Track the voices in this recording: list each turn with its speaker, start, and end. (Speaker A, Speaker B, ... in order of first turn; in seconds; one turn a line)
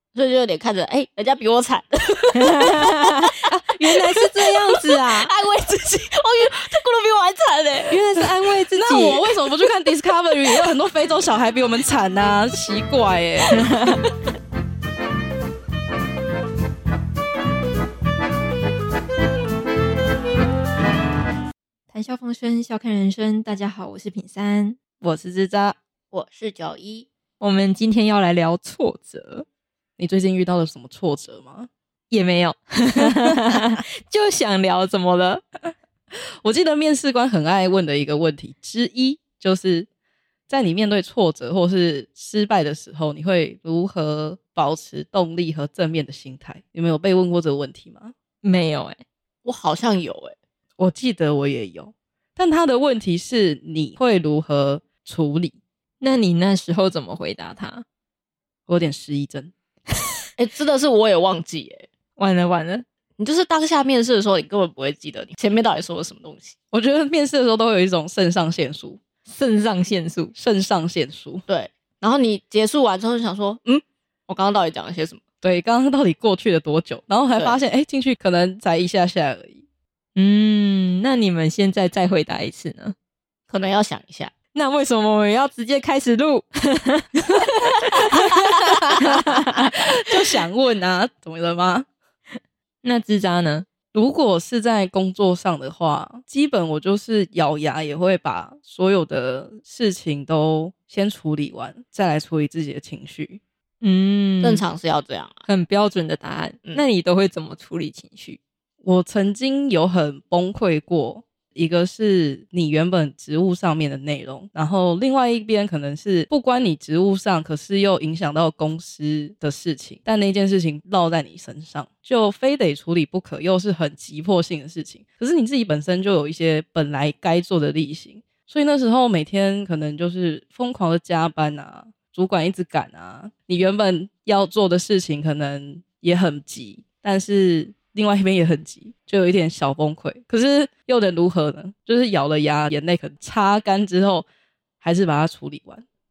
Speaker A: 0.1-3.2
Speaker B: 2.4-5.3
Speaker A: 3.9-8.0
Speaker B: 7.9-9.2
Speaker C: 8.8-13.7
Speaker B: 13.5-14.1
Speaker B: 21.9-24.8
Speaker C: 25.0-25.8
Speaker A: 26.1-27.1
Speaker B: 27.4-29.4
Speaker C: 30.0-31.7
Speaker B: 32.1-35.4
Speaker C: 36.4-39.9
Speaker C: 40.5-48.1
Speaker B: 48.4-49.0
Speaker A: 49.4-50.3
Speaker C: 50.8-55.6
Speaker B: 56.0-57.8
Speaker C: 58.7-59.5
Speaker A: 60.4-61.9
Speaker B: 62.2-62.8
Speaker A: 63.2-66.5
Speaker C: 66.7-69.0
Speaker B: 69.3-70.3
Speaker C: 70.3-71.4
Speaker A: 71.5-75.2
Speaker C: 75.4-79.6
Speaker B: 80.2-82.9
Speaker A: 83.5-84.3
Speaker B: 84.5-88.4
Speaker B: 89.0-89.7
Speaker C: 89.2-91.9
Speaker B: 92.8-93.7
Speaker C: 93.9-103.4
Speaker B: 103.8-104.6
Speaker A: 104.4-105.4
Speaker B: 105.5-108.4
Speaker C: 108.8-144.3
Speaker C: 144.8-145.8